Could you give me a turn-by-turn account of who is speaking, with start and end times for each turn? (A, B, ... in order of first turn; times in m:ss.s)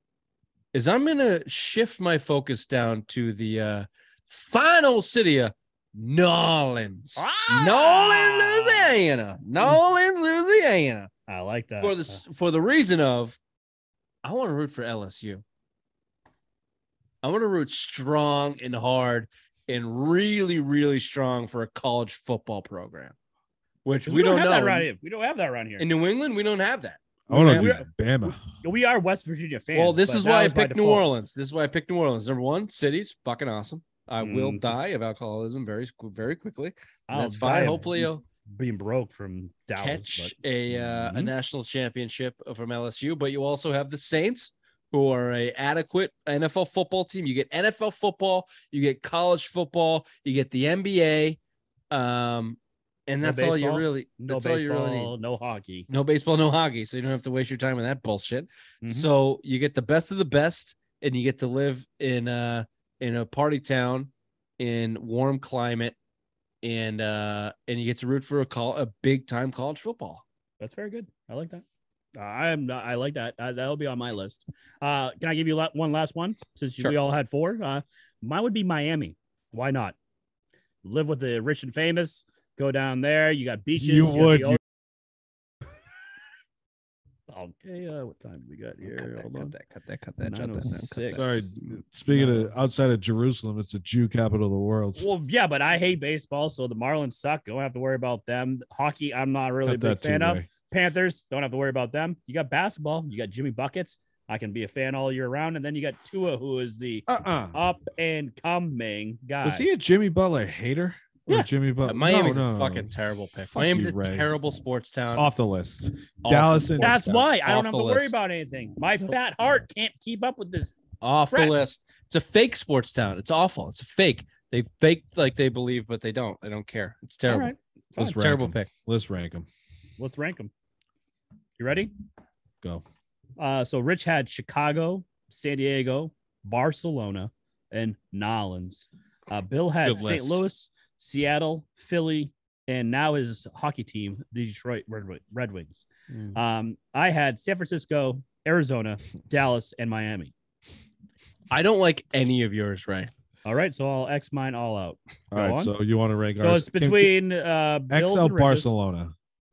0:00.7-0:11.1 A
0:07.2-0:08.9 B
0:11.3-0:12.2 B
0:11.8-0:13.4 A
0:14.2-0:15.4 A
0:17.2-0:23.2 A
0:23.8-0:24.9 A
0:24.1-0:25.9 B
0:25.8-0:27.7 A
0:27.3-0:28.4 C
0:27.3-0:31.1 B
0:29.7-0:38.2 A
0:34.2-0:34.7 B
0:37.1-0:41.3 B
0:39.8-0:51.4 A
0:51.9-0:55.1 A
0:53.2-0:55.9 B
0:55.9-1:06.0 A
0:58.8-0:59.1 B
1:06.6-1:10.2 A
1:10.6-1:11.6 B
1:12.2-1:20.0 B
1:20.8-1:24.6 B
1:23.8-1:24.6 C
1:27.3-1:29.5 B
1:28.8-1:31.4 A
1:30.2-1:31.4 B
1:31.1-1:35.1 C
1:32.1-1:32.5 B
1:35.0-1:49.7 B
1:39.6-1:40.5 C
1:47.1-1:47.6 C
1:49.4-1:52.9 C
1:51.8-1:55.3 A
1:53.5-1:54.3 C
1:55.2-1:57.0 C
1:56.2-1:58.2 A
1:56.8-2:01.6 B
2:01.0-2:08.7 A
2:07.3-2:08.2 B
2:08.0-2:09.5 C
2:10.0-2:10.5 B
2:11.6-2:11.9 B
2:13.4-2:30.3 B
2:19.8-2:20.4 A
2:26.1-2:26.4 A
2:31.5-2:33.1 A
2:33.4-2:35.7 B
2:35.3-2:37.2 C
2:36.4-2:38.7 B
2:37.9-2:39.1 C